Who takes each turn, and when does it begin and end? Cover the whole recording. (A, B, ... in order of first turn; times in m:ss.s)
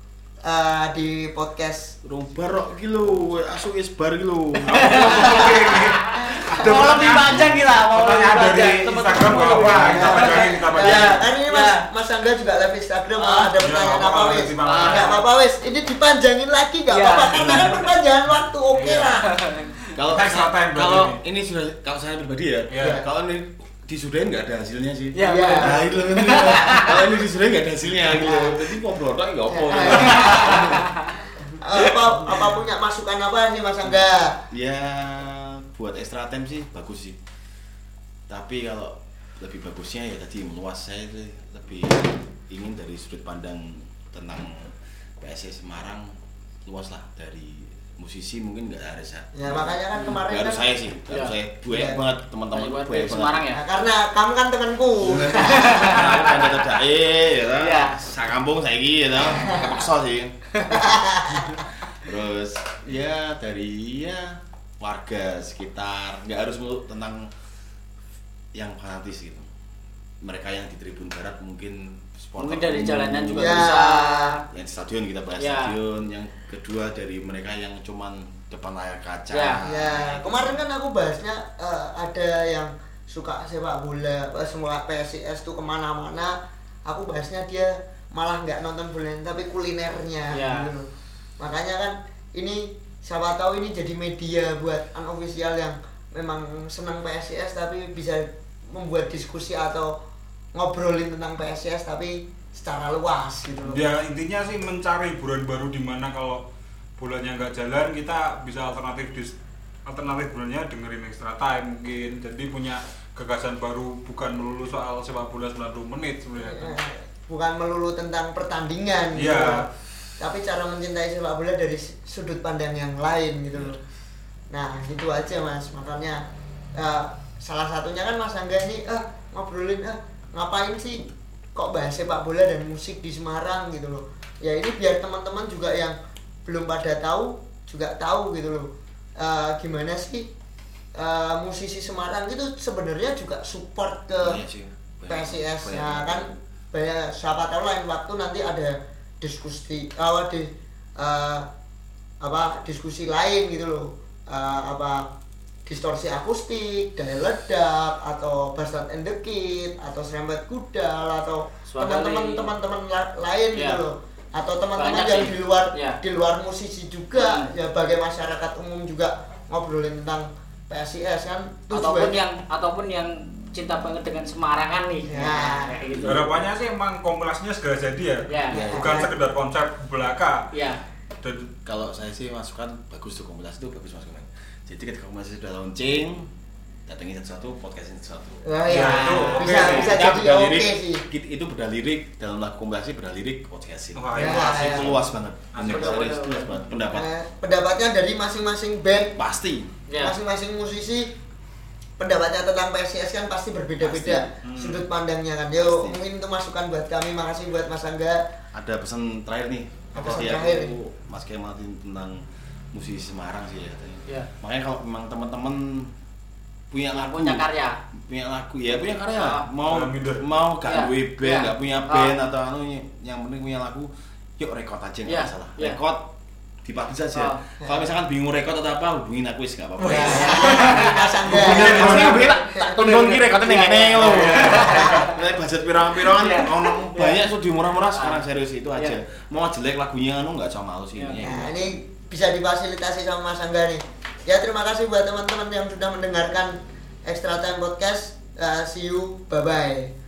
0:00.4-0:01.9 A
0:02.0-0:06.0 B
0:04.6-0:11.8 C
0:04.8-0:11.2 D
0:09.7-0:19.4 A
0:13.5-0:15.2 D
0:14.6-0:15.2 C
0:16.9-0:17.5 C
0:18.7-0:19.4 D
0:19.3-0:19.7 C
0:19.9-0:30.8 B
0:20.1-0:21.2 D
0:22.7-0:23.0 D
0:25.1-0:27.0 C
0:25.2-0:25.8 A
0:28.1-0:28.7 A
0:29.5-0:30.8 A
0:29.9-0:30.9 C
0:31.6-0:34.4 A
0:34.5-0:37.2 B
0:38.3-0:46.1 B
0:46.6-0:53.5 B
0:49.3-0:50.6 A
0:51.7-0:52.0 A
0:52.5-0:53.6 C
0:53.5-0:56.0 A
0:55.0-1:07.3 B
0:55.4-0:56.4 C
0:57.6-0:58.0 C
0:59.2-0:59.7 A
1:00.6-1:01.5 A
1:08.5-1:09.5 B
1:10.2-1:13.8 B
1:12.4-1:14.4 C
1:13.4-1:14.4 A
1:14.5-1:20.6 B
1:15.4-1:15.7 C
1:19.3-1:19.6 C
1:19.6-1:30.9 A
1:30.3-1:30.7 C
1:31.4-1:40.0 A
1:40.5-1:43.8 A
1:43.6-1:46.4 D
1:47.0-1:56.8 D
1:56.4-1:59.6 A
1:59.2-1:59.7 D
2:00.2-2:03.8 A
2:04.5-2:06.2 A
2:06.8-2:20.3 A
2:20.9-2:24.4 A
2:24.2-2:26.3 B
2:25.1-2:31.5 A
2:32.2-2:35.1 A
2:35.6-2:52.2 A
2:41.7-2:42.5 C
2:43.5-2:43.8 C
2:44.8-2:46.0 C
2:47.1-2:47.5 C
2:51.7-2:56.4 C
2:55.1-2:56.0 A
2:56.0-3:00.4 D
2:58.3-2:58.6 C
2:58.5-2:59.1 B
2:58.5-2:59.1 A
3:00.5-3:00.8 C
3:01.2-3:01.5 D
3:01.6-3:06.3 B
3:06.8-3:08.4 B
3:08.4-3:11.0 A
3:08.7-3:10.1 D
3:08.7-3:09.9 C
3:09.5-3:17.1 B
3:14.0-3:15.0 D
3:14.1-3:15.0 A
3:15.5-3:16.1 D
3:15.6-3:16.6 C
3:16.9-3:19.2 A
3:19.2-3:19.7 B
3:19.9-3:20.1 C
3:20.0-3:21.1 A
3:22.0-3:28.2 A
3:23.8-3:24.3 B
3:24.4-3:24.8 D
3:25.6-3:26.0 B
3:28.5-3:35.9 B
3:29.9-3:30.7 A
3:36.7-3:37.4 B
3:36.9-3:37.8 C
3:38.0-3:46.1 B
3:39.1-3:39.4 C
3:39.7-3:40.2 D
3:40.7-3:42.1 C
3:45.1-3:45.8 C
3:46.6-4:01.8 B
3:47.1-3:47.4 C
3:49.8-3:52.7 A
3:49.8-3:55.2 C
3:51.4-3:52.3 D
3:53.7-3:55.0 A
3:56.0-3:57.2 C
3:57.9-3:58.2 C
4:01.0-4:01.3 C
4:01.2-4:09.9 A